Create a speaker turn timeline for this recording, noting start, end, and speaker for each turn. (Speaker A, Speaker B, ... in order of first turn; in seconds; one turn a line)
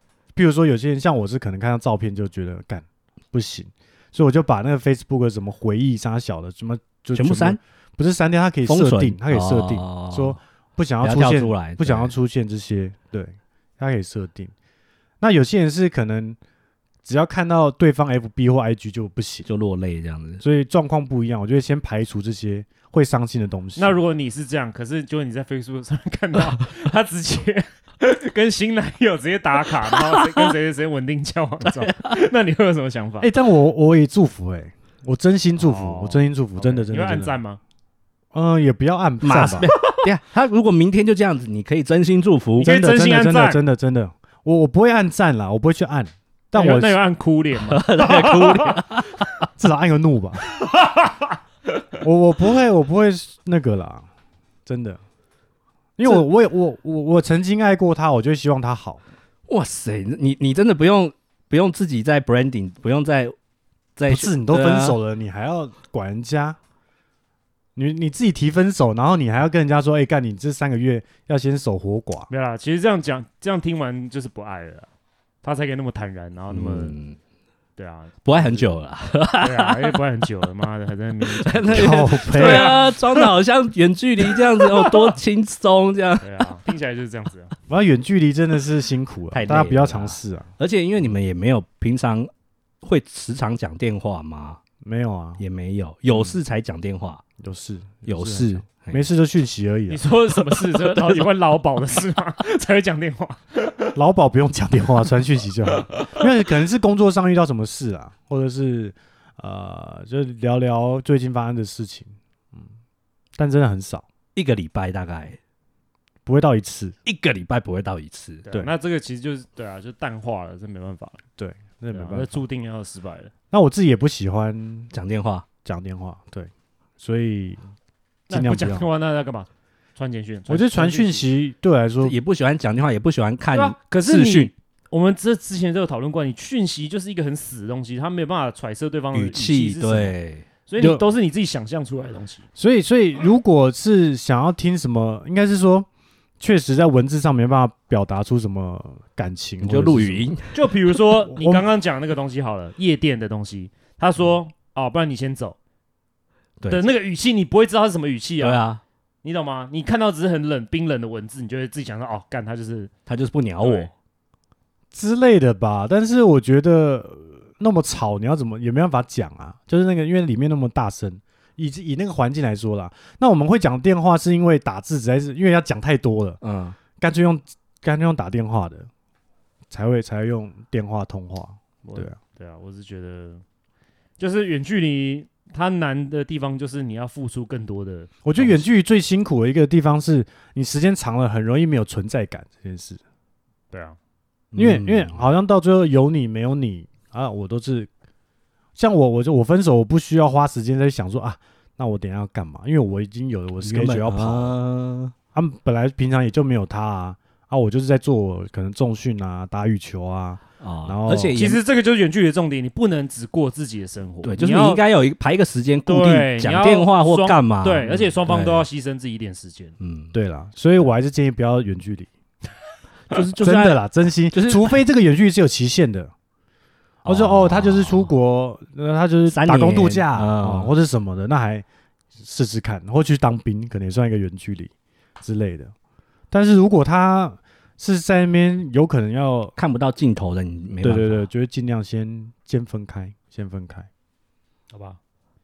Speaker A: 0.3-14.5
Speaker B: 7.1-7.6
Speaker B: 8.7-10.4
Speaker B: 11.0-12.1
Speaker A: 15.2-16.4
Speaker A: 17.1-19.5
Speaker B: 19.4-20.4
Speaker A: 20.4-24.0
Speaker C: 23.8-33.3
Speaker B: 29.9-30.5
Speaker B: 31.6-32.1
Speaker A: 33.2-37.4
Speaker C: 35.6-37.6
Speaker A: 38.3-39.7
Speaker B: 39.2-42.7
Speaker C: 42.6-43.6
Speaker A: 42.6-47.0
Speaker C: 46.5-49.0
Speaker B: 47.6-49.1
Speaker A: 49.6-50.5
Speaker C: 50.5-51.4
Speaker A: 52.0-54.1
Speaker A: 54.7-55.0
Speaker A: 56.0-59.0
Speaker B: 59.5-63.4
Speaker B: 64.0-65.0
Speaker A: 64.1-66.6
Speaker A: 67.8-72.3
Speaker C: 72.3-74.9
Speaker C: 75.4-77.0
Speaker B: 76.5-77.2
Speaker C: 77.8-78.7
Speaker B: 78.2-80.0
Speaker C: 79.4-83.3
Speaker B: 81.2-86.5
Speaker A: 81.7-82.8
Speaker C: 84.3-85.1
Speaker C: 86.2-87.6
Speaker A: 87.7-90.5
Speaker B: 89.3-92.3
Speaker B: 92.8-94.6
Speaker A: 94.8-95.4
Speaker B: 95.4-97.2
Speaker A: 97.4-100.0
Speaker B: 98.1-99.1
Speaker C: 99.9-103.9
Speaker B: 100.3-101.3
Speaker A: 104.0-112.6
Speaker A: 113.4-114.0
Speaker B: 114.4-115.4
Speaker A: 116.3-117.0
Speaker B: 117.1-118.5
Speaker C: 118.5-121.2
Speaker A: 121.4-122.4
Speaker C: 121.9-123.3
Speaker A: 123.5-124.9
Speaker B: 124.9-125.5
Speaker A: 125.7-127.6
Speaker C: 128.3-131.3
Speaker A: 128.3-128.9
Speaker A: 130.5-132.2
Speaker B: 132.0-134.5
Speaker C: 133.5-140.2
Speaker B: 139.1-140.5
Speaker C: 140.7-142.4
Speaker A: 140.8-141.1
Speaker A: 142.6-145.9
Speaker A: 146.4-150.3
Speaker B: 149.6-151.0
Speaker C: 150.5-155.6
Speaker A: 151.3-151.7
Speaker B: 156.6-156.9
Speaker C: 156.7-158.6
Speaker B: 158.4-158.8
Speaker C: 159.2-162.9
Speaker B: 163.1-163.9
Speaker C: 163.6-163.9
Speaker A: 164.9-176.4
Speaker B: 176.4-176.8
Speaker A: 177.0-178.9
Speaker A: 179.7-182.2
Speaker C: 181.8-183.4
Speaker C: 184.2-188.6
Speaker A: 188.2-193.0
Speaker C: 193.7-194.0
Speaker B: 194.5-195.2
Speaker A: 194.6-197.9
Speaker A: 198.8-204.6
Speaker B: 203.6-205.1
Speaker A: 205.3-211.4
Speaker B: 210.6-211.6
Speaker C: 211.3-214.8
Speaker B: 214.2-218.7
Speaker C: 215.9-219.8
Speaker B: 219.8-220.1
Speaker A: 220.1-222.1
Speaker B: 223.1-224.8
Speaker A: 223.4-226.1
Speaker A: 227.0-231.7
Speaker B: 227.1-228.1
Speaker B: 229.3-230.7
Speaker A: 232.2-235.7
Speaker A: 236.3-239.6
Speaker B: 239.6-241.3
Speaker A: 240.8-243.9
Speaker C: 244.7-245.0